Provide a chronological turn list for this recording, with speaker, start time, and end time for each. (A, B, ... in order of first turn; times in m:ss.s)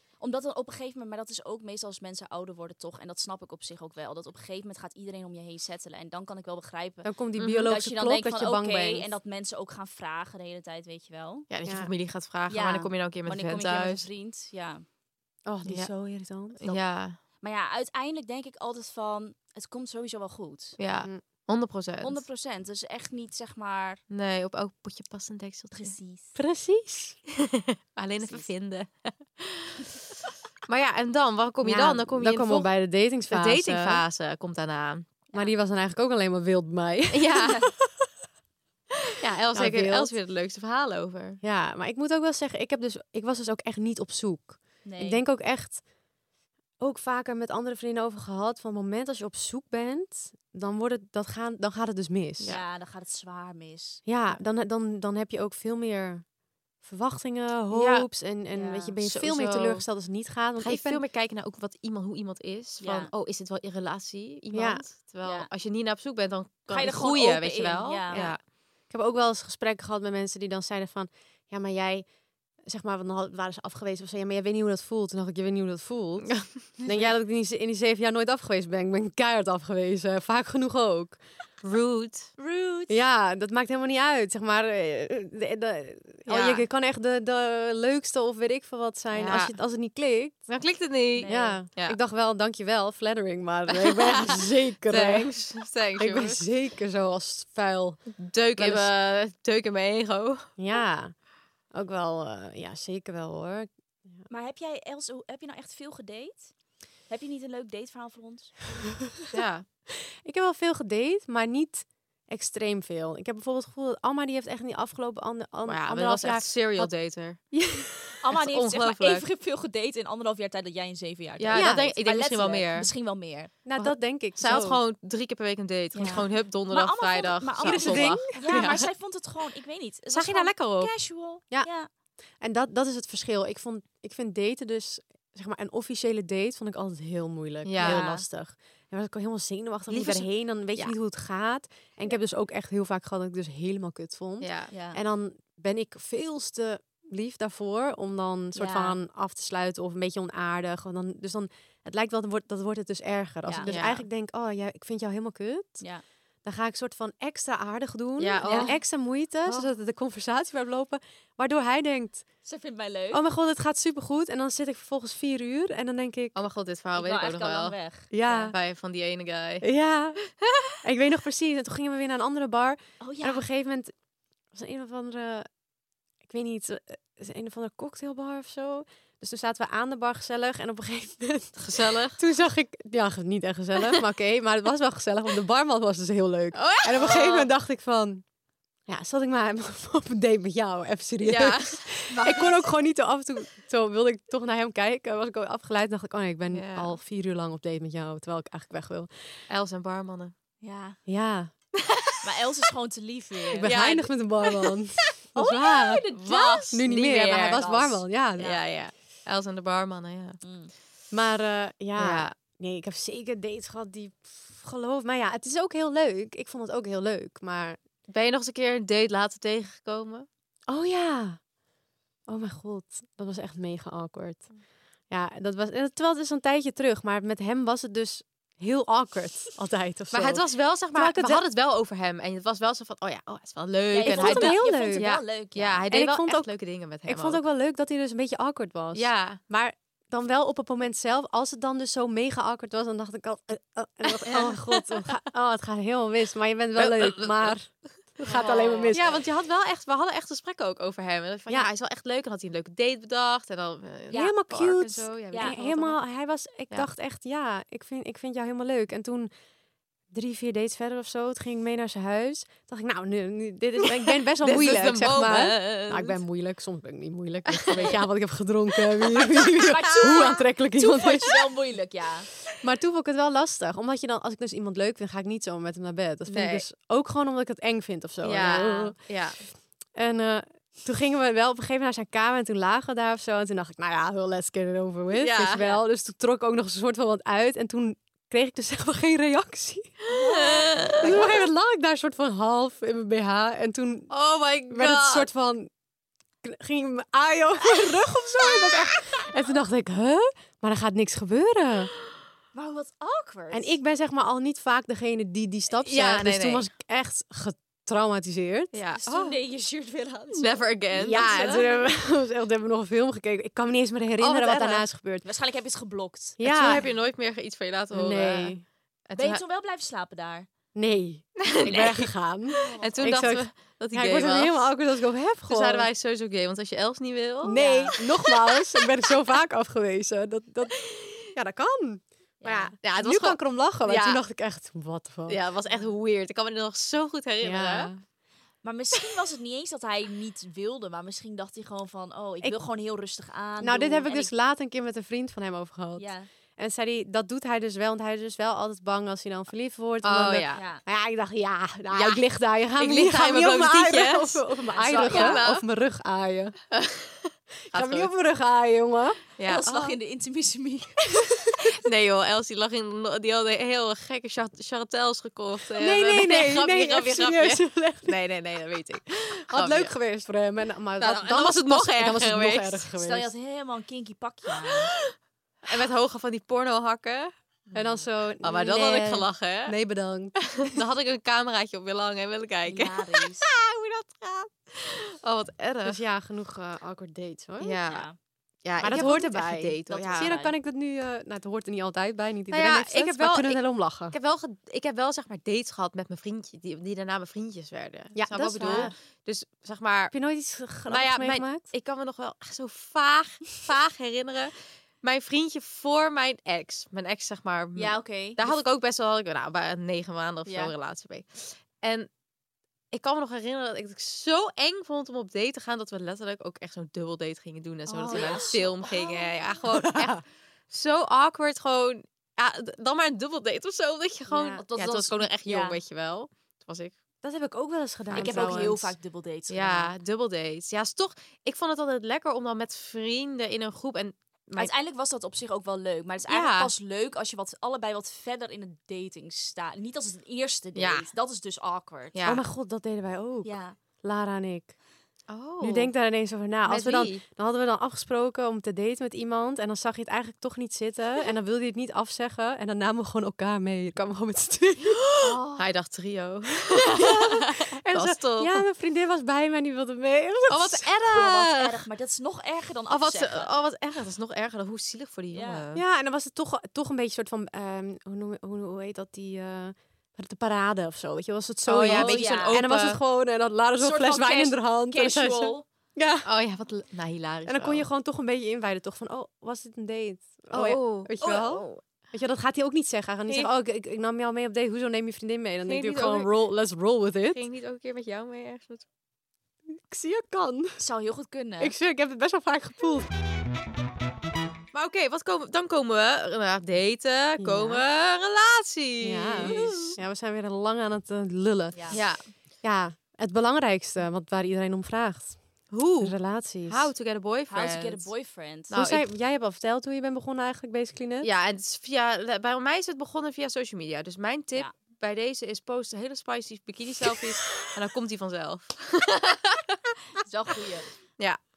0:00.2-0:07.1 A
0:07.0-0:09.1 B
0:07.4-0:07.7 C
0:07.6-0:11.5 A
0:11.5-0:14.0 C
0:11.6-0:11.9 B
0:12.5-0:14.8 A
0:15.4-0:16.6 B
0:16.6-0:17.2 C
0:17.4-0:20.8 A
0:20.8-0:22.2 C
0:22.0-0:24.0 A
0:24.1-0:26.0 C
0:25.7-0:26.3 A
0:26.3-0:27.2 B
0:27.4-0:29.9 C
0:30.6-0:32.7 C
0:31.6-0:34.0 B
0:33.3-0:35.1 C
0:35.3-0:37.4 B
0:37.1-0:37.6 C
0:37.4-0:37.7 A
0:39.2-0:41.4 C
0:39.5-0:40.1 B
0:41.4-0:45.8 B
0:44.8-0:45.2 A
0:46.8-0:52.6 B
0:52.4-0:54.4 A
0:54.0-0:56.2 B
0:56.8-1:01.0 B
0:57.7-0:58.1 C
0:58.5-0:58.9 A
0:59.0-0:59.8 C
1:00.6-1:08.4 C
1:02.8-1:03.1 A
1:04.5-1:04.8 B
1:05.2-1:05.5 A
1:06.7-1:08.3 A
1:08.1-1:12.0 B
1:12.6-1:21.2 B
1:16.8-1:17.1 A
1:21.6-1:22.3 C
1:22.4-1:23.0 A
1:22.9-1:30.4 B
1:26.2-1:26.6 C
1:29.1-1:29.6 C
1:30.5-1:32.0 C
1:31.2-1:31.6 A
1:31.2-1:35.3 B
1:33.7-1:36.4 C
1:36.0-1:38.0 B
1:38.2-1:40.5 C
1:38.6-1:38.9 B
1:40.6-1:41.1 B
1:41.7-1:43.7 B
1:44.3-1:46.5 A
1:47.1-1:48.5 A
1:49.3-1:49.6 C
1:50.0-1:56.9 B
1:55.6-1:57.4 C
1:57.5-1:58.1 B
1:58.2-2:03.5 A
1:58.3-1:59.3 C
2:01.4-2:02.9 C
2:01.5-2:01.8 B
2:03.6-2:04.8 B
2:03.8-2:08.8 C
2:05.9-2:11.9 A
2:07.6-2:08.8 B
2:10.1-2:10.9 C
2:12.4-2:35.8 B
2:17.6-2:18.0 C
2:17.8-2:18.2 A
2:19.9-2:20.9 C
2:24.4-2:24.7 C
2:24.7-2:25.0 A
2:28.5-2:29.0 A
2:33.4-2:33.7 A
2:33.6-2:34.0 C
2:36.4-2:42.2 B
2:38.2-2:38.8 C
2:38.4-2:38.7 A
2:42.4-2:43.2 A
2:43.1-2:46.4 B
2:46.3-2:47.8 C
2:47.0-2:48.5 A
2:48.1-2:48.6 B
2:48.5-2:49.6 C
2:49.6-2:50.2 B
2:50.8-2:53.9 B
2:53.0-2:53.4 A
2:54.5-2:55.5 B
2:56.2-3:08.2 B
3:01.6-3:02.2 C
3:06.5-3:07.5 C
3:08.9-3:19.1 B
3:11.2-3:11.8 C
3:12.1-3:12.6 A
3:16.5-3:17.0 C
3:19.5-3:20.3 C
3:20.6-3:21.0 A
3:21.0-3:21.5 B
3:21.8-3:22.2 C
3:22.2-3:23.7 A
3:23.6-3:26.0 B
3:23.6-3:24.7 C
3:25.4-3:26.7 A
3:26.1-3:27.7 C
3:26.7-3:28.6 B
3:27.5-3:28.6 A
3:28.4-3:30.4 C
3:30.4-3:30.7 A
3:31.1-3:37.8 B
3:32.0-3:32.3 C
3:38.1-3:40.2 C
3:40.7-3:41.4 B
3:42.3-3:44.5 B
3:45.1-3:51.4 B
3:50.1-3:57.4 C
3:53.9-3:55.8 A
3:54.0-3:55.0 B
3:55.9-3:56.5 B
3:57.0-4:09.1 B
3:58.9-3:59.4 C
4:04.1-4:05.1 C
4:06.8-4:07.5 C
4:08.2-4:09.2 A
4:08.9-4:16.0 C
4:14.1-4:19.3 B
4:20.1-4:31.4 B
4:24.0-4:26.2 C
4:27.5-4:27.9 C
4:27.7-4:28.0 A
4:29.1-4:29.4 C
4:29.1-4:32.3 A
4:30.0-4:30.3 C
4:32.6-4:39.0 B
4:36.3-4:36.6 C
4:38.2-4:39.4 C
4:39.9-4:50.0 B
4:45.1-4:45.6 C
4:50.1-4:51.3 A
4:50.1-4:51.3 C
4:51.0-4:54.1 B
4:54.1-4:55.3 C
4:54.7-4:55.7 B
4:56.4-5:01.9 B
5:02.5-5:03.8 A
5:03.5-5:08.7 B
5:05.8-5:06.6 C
5:08.7-5:09.4 C
5:09.0-5:10.6 A
5:10.3-5:11.7 C
5:10.9-5:15.2 B
5:14.2-5:14.8 C
5:15.2-5:16.9 A
5:16.4-5:16.8 B
5:16.4-5:18.5 C
5:17.9-5:18.6 B
5:19.1-5:19.4 C
5:19.1-5:20.5 A
5:20.7-5:25.9 B
5:21.4-5:22.1 C
5:22.5-5:23.3 A
5:22.8-5:24.7 C
5:25.5-5:28.4 C
5:27.4-5:35.4 B
5:27.5-5:27.9 A
5:32.4-5:32.7 A
5:32.8-5:34.2 C
5:35.3-5:37.9 C
5:37.4-5:38.0 B
5:38.6-5:44.3 A
5:43.6-5:56.6 B
5:46.0-5:46.3 A
5:50.0-5:50.6 C
5:50.5-5:50.8 A
5:51.9-5:52.2 C
5:52.8-5:55.6 C
5:54.7-5:55.4 A
5:56.7-5:58.1 C
5:57.7-5:59.2 B
5:59.4-6:00.0 C
5:59.4-6:01.4 A
6:01.7-6:09.9 C
6:05.8-6:08.2 B
6:09.5-6:13.3 B
6:11.0-6:12.8 C
6:12.9-6:14.9 A
6:15.6-6:17.3 C
6:17.7-6:20.7 B
6:18.4-6:19.8 C
6:20.4-6:26.0 C
6:22.6-6:23.5 A
6:25.8-6:27.8 B
6:27.6-6:28.1 C
6:27.9-6:28.2 A
6:28.6-6:30.3 C
6:28.8-6:34.1 B
6:28.8-6:29.1 A
6:29.9-6:30.5 A
6:32.5-6:40.1 C
6:38.1-6:38.9 B
6:38.6-6:38.9 A
6:40.1-6:41.7 B
6:40.8-6:52.1 C
6:47.8-6:48.4 A
6:50.4-6:50.7 A
6:52.9-7:06.9 C
6:57.9-6:59.3 A
6:58.1-6:58.4 B
6:59.7-7:00.2 B
7:04.3-7:04.6 B
7:04.3-7:05.8 A
7:07.2-7:08.9 B
7:08.1-7:08.8 C
7:08.1-7:09.9 A
7:09.5-7:14.7 C
7:14.6-7:22.2 A
7:16.3-7:16.7 C
7:20.8-7:21.1 C
7:22.1-7:22.4 C
7:22.2-7:24.7 B
7:23.4-7:23.8 A
7:25.3-7:25.9 C
7:25.6-7:35.0 B
7:26.6-7:27.2 C
7:35.0-7:38.6 C
7:35.2-7:35.6 A
7:36.7-7:41.2 B
7:40.5-7:41.8 C
7:41.1-7:43.5 A
7:42.9-7:45.8 C
7:45.3-7:45.6 A
7:45.7-7:56.3 B
7:51.7-7:53.0 C
7:51.8-7:52.6 A
7:53.8-7:55.6 A
7:56.2-7:57.8 C
7:57.4-8:07.4 B
8:00.5-8:01.8 C
8:05.6-8:06.3 C
8:07.3-8:08.8 C
8:09.7-8:10.8 B
8:10.8-8:11.7 A
8:11.6-8:13.1 B
8:14.7-8:20.0 C
8:17.4-8:17.8 B
8:19.0-8:25.4 B
8:19.4-8:19.9 A
8:21.7-8:22.0 A
8:21.9-8:22.2 C
8:25.7-8:28.1 C
8:26.0-8:26.9 B
8:27.5-8:28.7 A
8:28.7-8:29.0 C
8:28.7-8:31.3 B
8:31.2-8:39.8 C
8:40.2-8:40.9 A